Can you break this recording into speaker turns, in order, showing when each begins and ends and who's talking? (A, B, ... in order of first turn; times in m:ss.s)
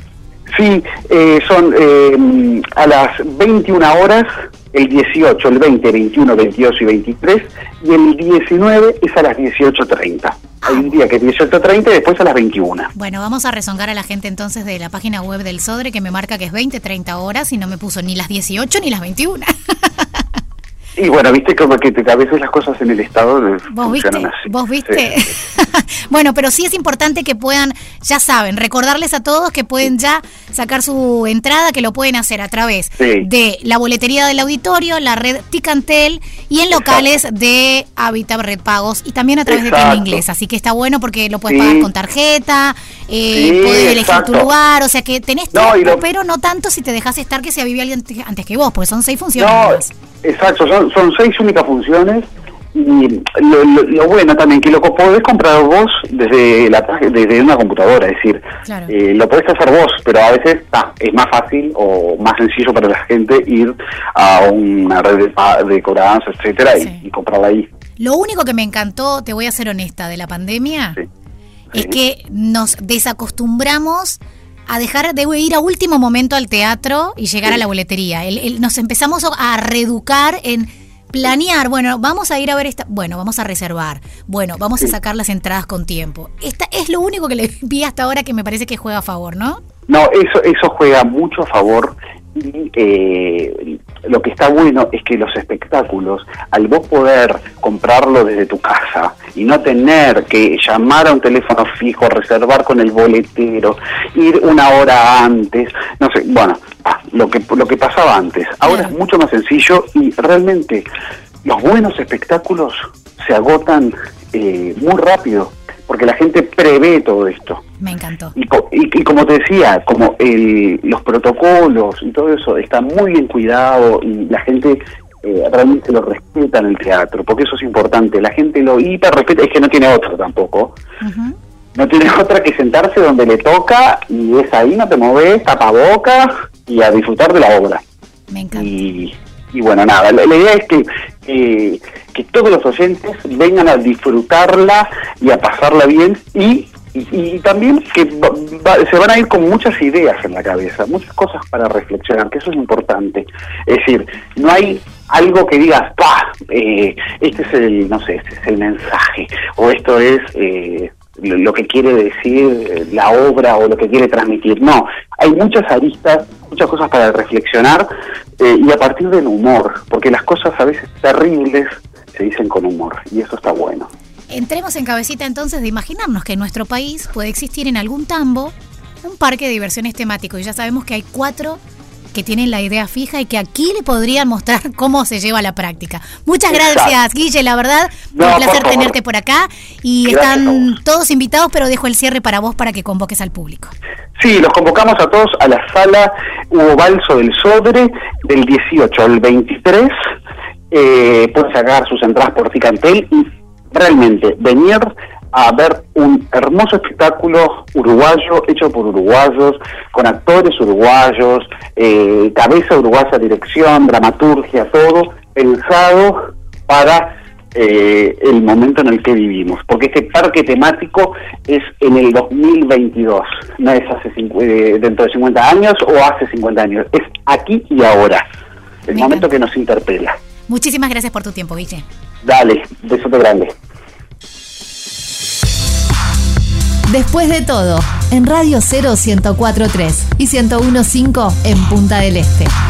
0:00.5-0:12.9 A
0:10.6-0:10.9 B
0:13.0-0:20.2 B
0:21.0-0:25.0 A
0:23.7-0:49.9 B
0:33.0-0:33.3 A
0:36.7-0:37.0 A
0:39.5-0:40.2 A
0:41.4-0:41.9 A
0:43.3-0:44.5 A
0:45.5-0:46.0 A
0:49.4-1:07.7 A
0:58.7-0:58.9 B
1:08.0-1:11.0 B
1:11.7-1:29.6 B
1:29.9-1:50.8 A
1:48.6-1:48.9 B
1:51.4-1:57.6 A
1:57.8-1:58.3 B
1:58.3-2:10.8 A
2:11.0-2:11.4 B
2:11.8-2:17.8 A
2:18.3-2:18.7 B
2:18.5-2:47.9 A
2:48.4-2:53.9 A
2:54.3-3:01.6 B
3:02.1-3:13.7 B
3:06.5-3:06.9 A
3:08.1-3:08.9 A
3:10.0-3:10.7 A
3:14.2-3:19.9 A
3:20.7-3:48.2 A
3:48.8-3:50.2 A
3:48.9-3:49.2 B
3:50.5-3:51.8 B
3:52.2-3:53.5 A
3:56.9-4:02.5 C